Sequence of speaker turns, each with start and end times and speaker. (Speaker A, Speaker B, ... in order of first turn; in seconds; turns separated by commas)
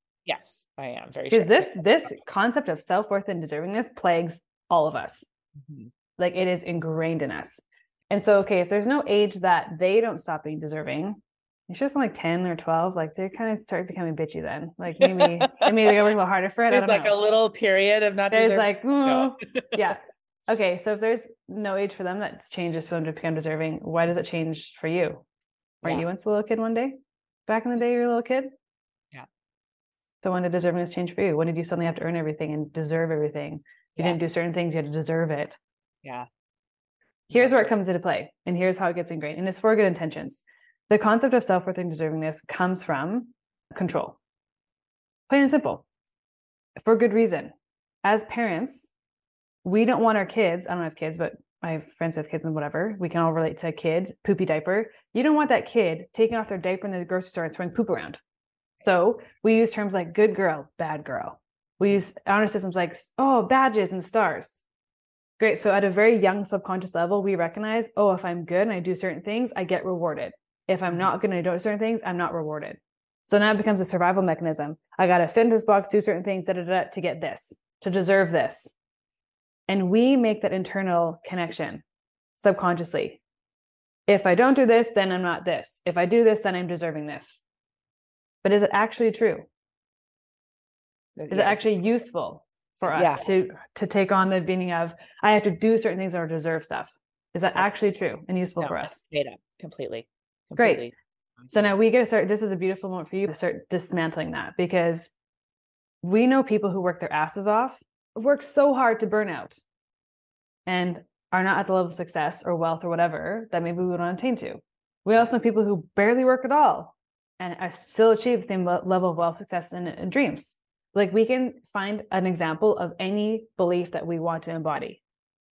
Speaker A: 0.2-2.1, Speaker B: 1.3-5.2, Speaker A: 5.6-5.9, Speaker B: 6.2-17.1, Speaker A: 15.0-15.9, Speaker A: 16.7-19.8, Speaker B: 18.3-25.2, Speaker B: 25.8-28.5, Speaker B: 30.2-35.6, Speaker A: 37.3-37.7, Speaker B: 37.3-44.2, Speaker B: 45.3-45.8, Speaker B: 46.8-48.9, Speaker B: 49.6-58.2, Speaker B: 58.8-64.6, Speaker B: 65.4-78.7, Speaker B: 79.7-81.8, Speaker B: 82.3-83.2, Speaker B: 84.1-87.4, Speaker B: 88.4-89.5, Speaker A: 91.2-91.6, Speaker B: 91.3-99.0, Speaker A: 92.9-93.3, Speaker A: 98.6-101.7, Speaker B: 100.6-100.9, Speaker B: 101.5-105.1, Speaker B: 106.0-109.6, Speaker B: 110.7-125.0